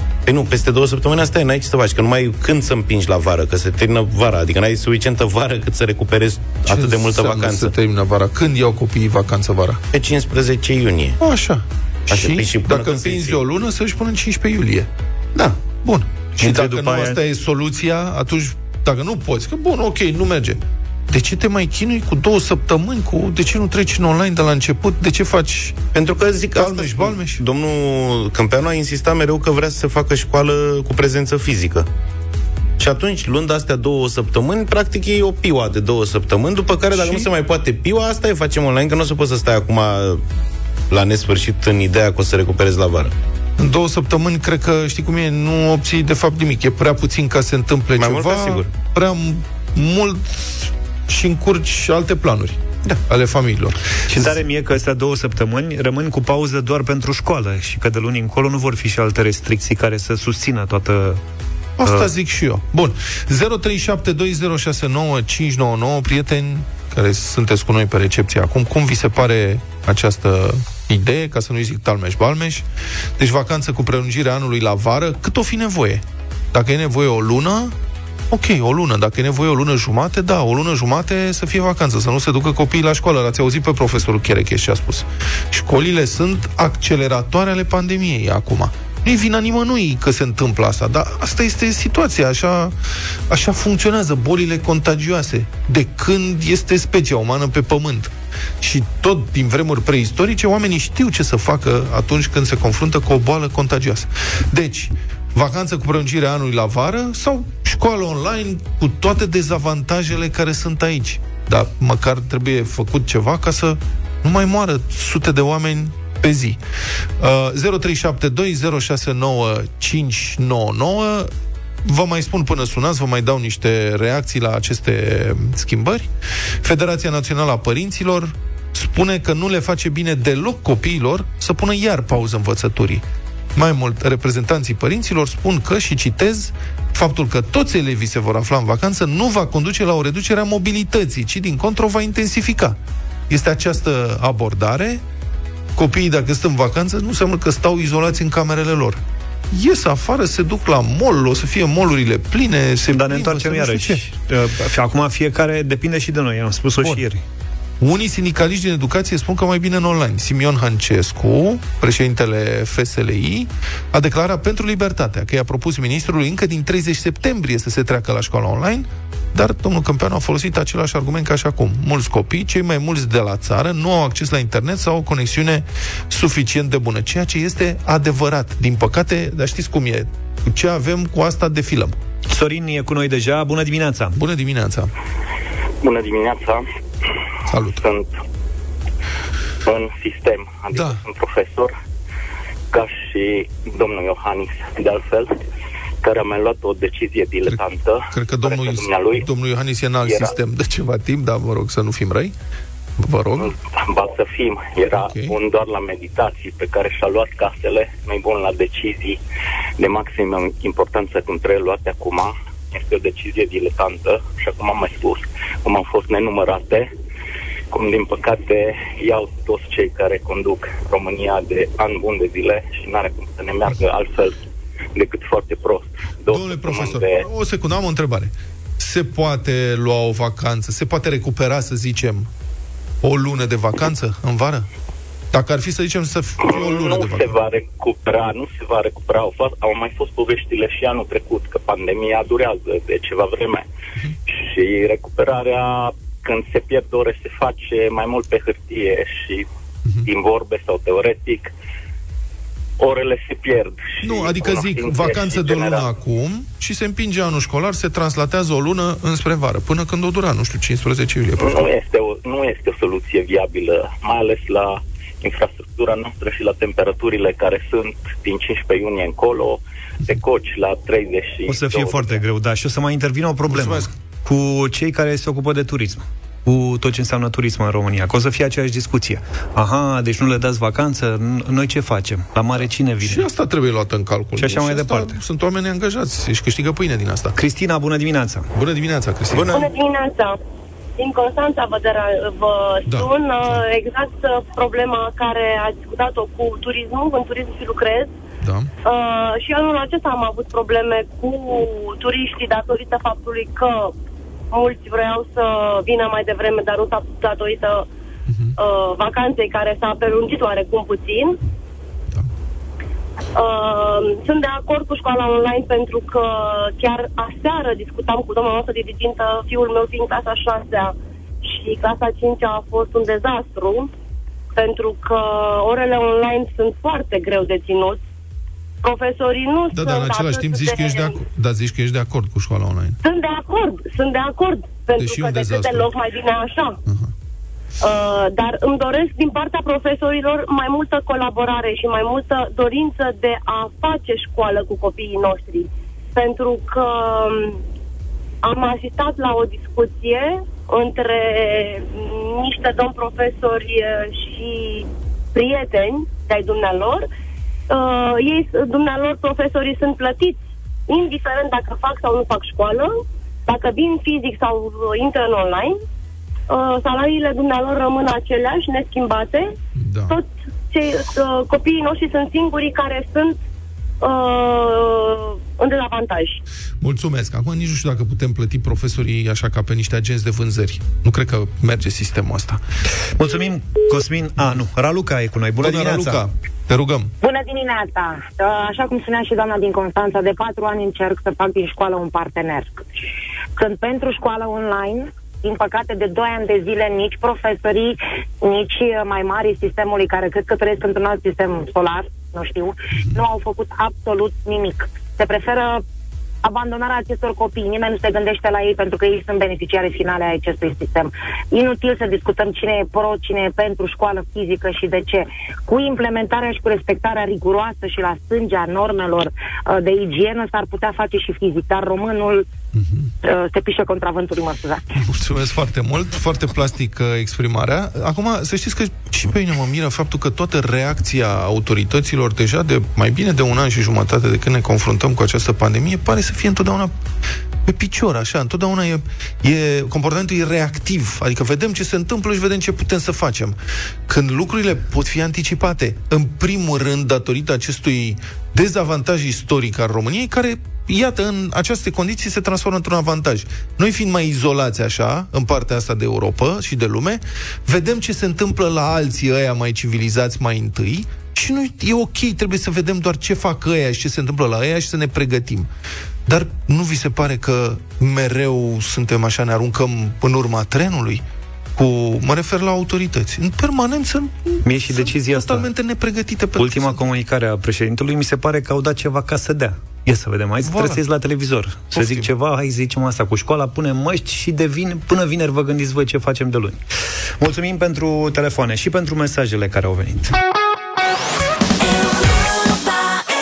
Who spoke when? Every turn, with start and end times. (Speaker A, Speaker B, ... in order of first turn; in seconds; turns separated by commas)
Speaker A: 0.3-7.7, Speaker B: 6.7-9.8, Speaker A: 9.9-11.2, Speaker B: 11.2-14.9, Speaker A: 12.1-13.4, Speaker B: 15.8-25.9, Speaker C: 16.4-17.2, Speaker A: 25.9-31.9, Speaker B: 26.5-27.4, Speaker A: 32.8-40.2, Speaker B: 36.9-37.3, Speaker A: 40.9-43.1, Speaker B: 43.6-54.4, Speaker A: 48.0-48.7, Speaker C: 54.1-61.2, Speaker B: 61.8-72.7, Speaker B: 73.2-77.8, Speaker B: 78.3-92.7, Speaker B: 93.3-116.6, Speaker B: 117.2-121.3, Speaker B: 121.8-126.1, Speaker B: 126.6-133.0, Speaker B: 133.6-142.8, Speaker B: 143.3-145.0, Speaker B: 145.8-154.0, Speaker C: 152.9-157.2, Speaker B: 157.8-182.0, Speaker C: 182.3-184.2, Speaker B: 184.2-184.9, Speaker D: 185.8-186.7, Speaker B: 187.5-187.9, Speaker D: 187.8-188.1, Speaker D: 189.7-191.7, Speaker B: 190.7-191.0, Speaker D: 192.7-195.3, Speaker D: 196.0-199.2, Speaker B: 197.5-202.3, Speaker D: 200.1-200.3, Speaker B: 203.0-203.5, Speaker D: 203.4-209.2, Speaker B: 204.9-205.4, Speaker D: 209.8-216.9, Speaker D: 217.7-224.4, Speaker D: 224.9-227.2, Speaker B: 226.3-232.3, Speaker B: 233.0-234.7, Speaker B: 235.3-237.4, Speaker D: 236.4-243.7, Speaker D: 244.3-249.5, Speaker D: 250.1-251.5, Speaker D: 252.8-255.9, Speaker B: 254.0-261.7, Speaker D: 261.4-272.2, Speaker C: 271.5-283.2, Speaker B: 273.5-273.9, Speaker B: 283.0-287.4, Speaker C: 284.4-285.2, Speaker C: 287.4-288.5, Speaker B: 288.5-289.6, Speaker A: 289.3-289.7, Speaker E: 289.5-290.4, Speaker E: 291.0-298.1, Speaker B: 292.9-293.6, Speaker B: 298.4-298.7, Speaker E: 298.9-303.9, Speaker E: 304.5-307.9, Speaker B: 308.3-308.5, Speaker E: 308.6-311.4, Speaker E: 313.4-323.9, Speaker E: 324.6-328.0, Speaker E: 328.8-331.1, Speaker B: 329.7-333.0, Speaker E: 333.0-336.8, Speaker B: 335.0-335.9, Speaker B: 336.9-337.1, Speaker E: 337.8-347.6, Speaker E: 348.4-357.1, Speaker E: 357.7-365.8, Speaker E: 366.5-369.5, Speaker B: 369.8-370.2, Speaker E: 370.1-373.4, Speaker E: 374.0-376.4, Speaker B: 376.8-382.6, Speaker C: 383.2-386.2, Speaker B: 385.6-387.1, Speaker F: 387.2-392.9, Speaker F: 393.6-405.8, Speaker F: 406.4-422.4, Speaker B: 422.8-423.1, Speaker F: 423.2-425.0, Speaker B: 425.0-437.0, Speaker B: 437.6-465.7, Speaker B: 466.3-471.2, Speaker B: 471.8-477.0, Speaker C: 474.6-475.7, Speaker C: 476.6-486.8, Speaker B: 480.6-481.0, Speaker B: 481.9-482.3, Speaker C: 487.4-490.3